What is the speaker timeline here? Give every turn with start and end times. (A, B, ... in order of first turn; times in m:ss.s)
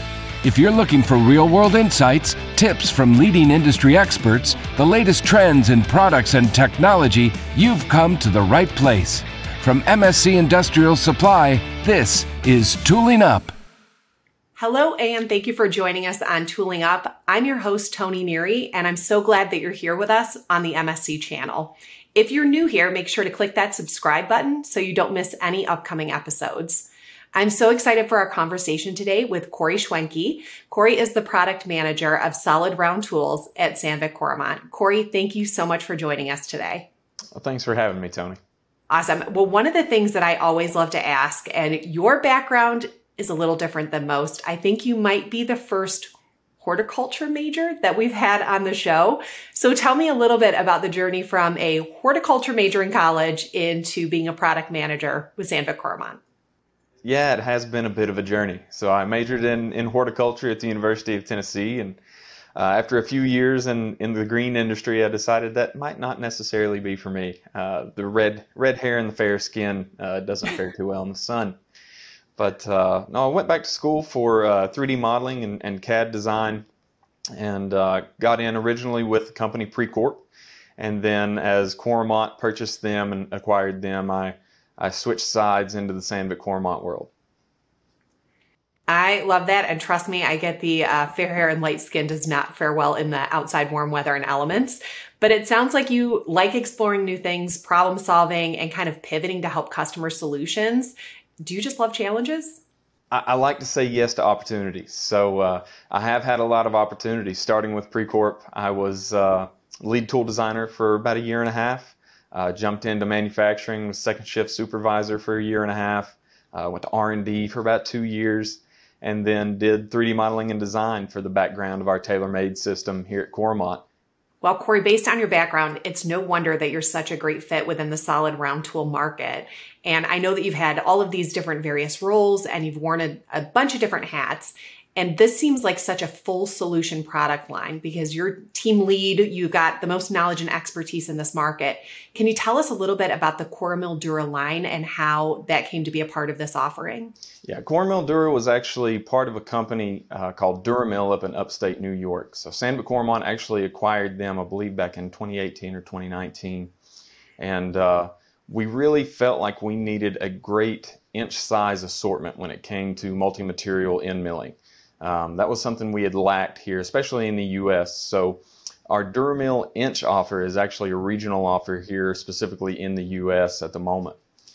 0:00.4-0:13.5 A
0:14.6-0:36.9 B
0:37.3-0:38.4 C
0:38.9-0:56.2 B
0:57.0-1:02.0 C
1:02.6-1:11.6 C
1:12.4-1:16.6 C
1:17.3-1:20.2 C
1:20.8-1:27.1 C
1:28.9-1:42.6 B
1:43.1-2:03.8 C
2:04.4-2:27.1 B
2:27.4-2:36.7 C
2:37.4-2:54.2 C